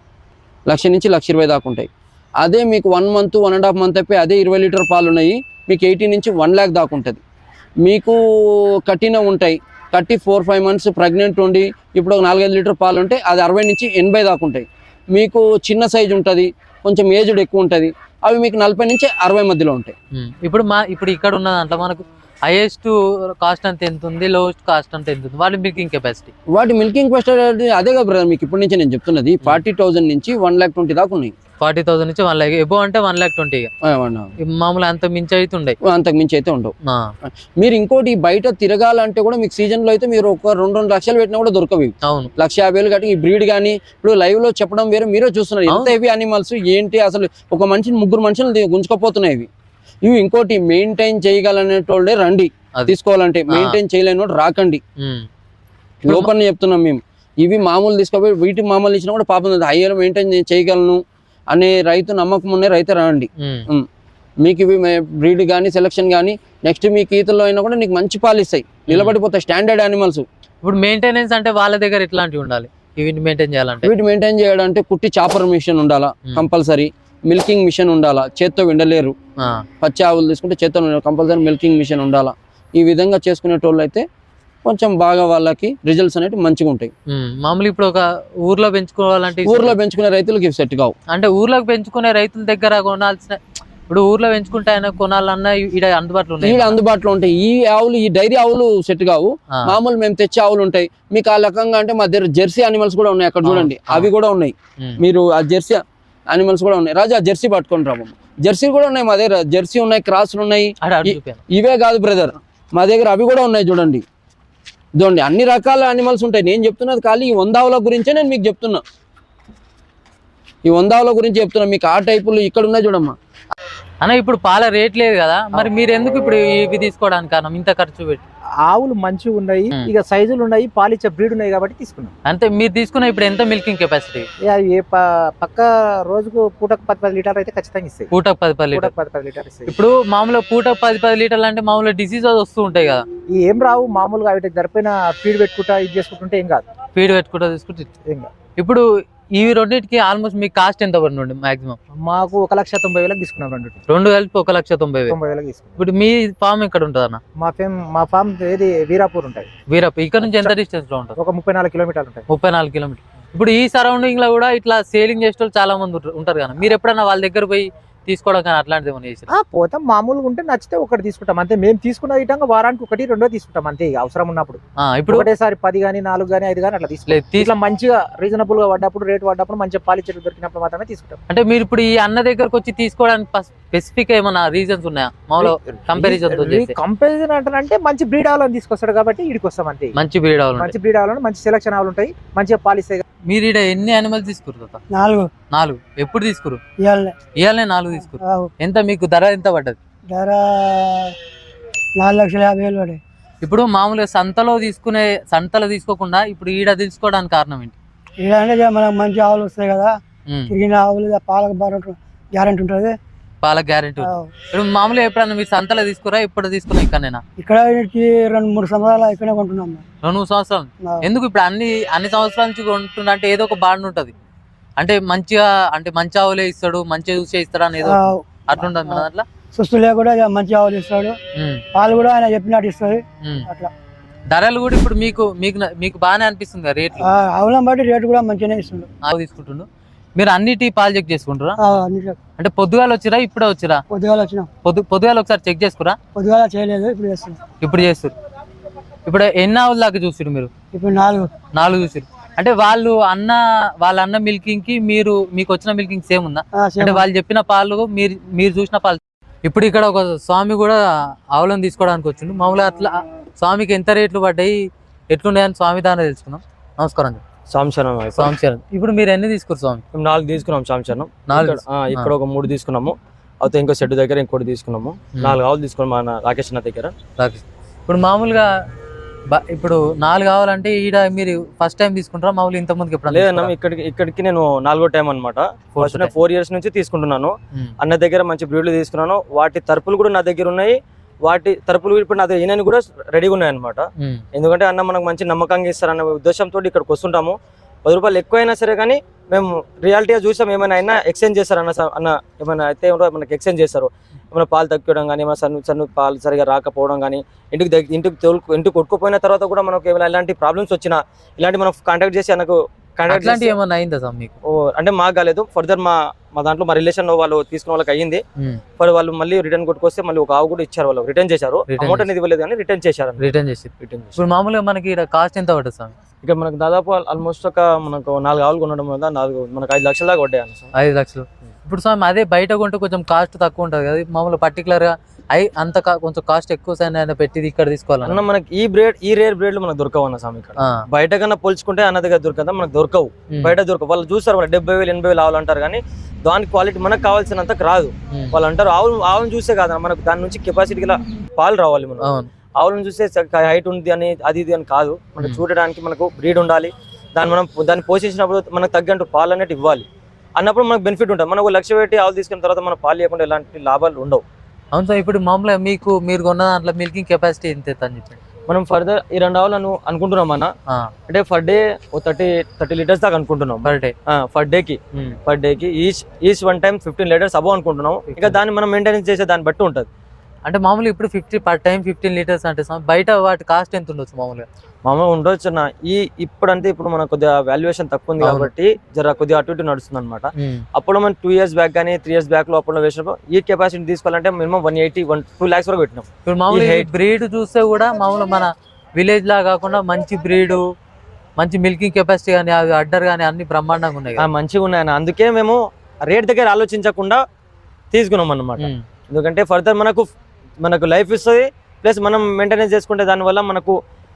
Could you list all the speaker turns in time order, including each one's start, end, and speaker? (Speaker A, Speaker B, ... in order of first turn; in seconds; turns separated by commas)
Speaker A: 0.7-1.9, Speaker A: 2.4-7.2, Speaker A: 7.8-19.9, Speaker B: 20.1-26.3, Speaker A: 26.5-31.3, Speaker B: 31.6-33.7, Speaker A: 33.8-34.3, Speaker B: 34.4-35.8, Speaker A: 35.8-36.7, Speaker B: 36.8-37.1, Speaker A: 37.6-49.5, Speaker B: 42.0-42.3, Speaker B: 45.7-45.9, Speaker A: 50.0-54.8, Speaker B: 53.5-53.8, Speaker B: 55.0-55.3, Speaker A: 56.0-61.0, Speaker A: 61.5-63.9, Speaker B: 63.4-63.7, Speaker A: 64.4-70.2, Speaker B: 68.9-69.1, Speaker B: 70.6-73.9, Speaker A: 73.8-79.1, Speaker A: 79.8-84.0, Speaker A: 84.6-86.9, Speaker B: 87.1-89.8, Speaker A: 89.4-90.9, Speaker B: 91.1-96.8, Speaker A: 96.4-114.0, Speaker B: 103.4-104.1, Speaker B: 110.8-111.4, Speaker A: 115.0-118.8, Speaker A: 120.6-123.1, Speaker B: 124.0-128.2, Speaker C: 128.6-132.1, Speaker B: 132.2-134.3, Speaker C: 134.4-138.1, Speaker B: 138.1-138.9, Speaker C: 138.7-139.8, Speaker B: 139.7-143.0, Speaker C: 143.3-146.6, Speaker B: 146.9-147.9, Speaker C: 148.1-148.3, Speaker B: 148.6-151.8, Speaker C: 152.0-153.8, Speaker B: 153.9-155.2, Speaker C: 155.1-155.8, Speaker B: 155.8-157.2, Speaker C: 157.4-159.5, Speaker B: 159.7-161.1, Speaker C: 160.2-160.5, Speaker C: 161.2-162.2, Speaker B: 162.3-169.3, Speaker C: 169.3-181.2, Speaker B: 174.8-175.3, Speaker B: 177.1-177.5, Speaker B: 181.3-186.7, Speaker C: 185.4-189.9, Speaker B: 189.9-190.7, Speaker C: 190.6-193.0, Speaker B: 193.3-194.8, Speaker D: 194.9-195.3, Speaker B: 195.5-196.6, Speaker D: 196.8-197.1, Speaker B: 197.4-199.8, Speaker D: 198.1-198.5, Speaker D: 200.1-201.1, Speaker D: 201.9-203.0, Speaker B: 203.4-207.8, Speaker D: 208.2-210.0, Speaker B: 210.3-210.5, Speaker D: 210.5-213.0, Speaker B: 213.4-217.2, Speaker D: 214.0-214.3, Speaker D: 217.4-219.8, Speaker B: 220.0-224.1, Speaker B: 224.8-229.2, Speaker D: 227.8-231.2, Speaker B: 231.3-231.6, Speaker D: 231.7-233.7, Speaker B: 233.2-233.5, Speaker B: 234.3-237.1, Speaker D: 237.0-238.9, Speaker B: 239.0-241.6, Speaker D: 241.6-242.2, Speaker B: 242.4-243.8, Speaker D: 243.9-244.5, Speaker B: 244.6-246.0, Speaker D: 246.1-247.4, Speaker B: 247.6-248.1, Speaker B: 249.1-250.5, Speaker D: 250.7-251.3, Speaker B: 251.5-260.8, Speaker D: 256.5-257.1, Speaker B: 261.3-267.2, Speaker E: 267.5-268.3, Speaker B: 268.2-269.8, Speaker E: 269.9-276.9, Speaker B: 271.3-272.1, Speaker B: 277.2-278.5, Speaker B: 279.3-283.5, Speaker E: 283.1-313.5, Speaker B: 285.8-286.1, Speaker B: 313.1-314.3, Speaker E: 314.5-318.2, Speaker E: 318.8-324.2, Speaker B: 321.7-322.1, Speaker B: 323.2-325.9, Speaker E: 326.2-330.7, Speaker B: 330.7-338.2, Speaker E: 338.0-352.1, Speaker B: 340.6-340.8, Speaker B: 352.0-352.3, Speaker E: 352.6-364.2, Speaker B: 364.7-368.2, Speaker E: 368.5-370.5, Speaker E: 371.1-379.9, Speaker B: 373.6-373.9, Speaker B: 378.1-378.4, Speaker B: 380.4-384.4, Speaker E: 384.8-396.9, Speaker B: 388.2-388.5, Speaker B: 390.4-390.6, Speaker B: 396.2-400.6, Speaker B: 401.4-404.2, Speaker E: 404.2-407.2, Speaker E: 407.9-410.1, Speaker E: 410.6-413.7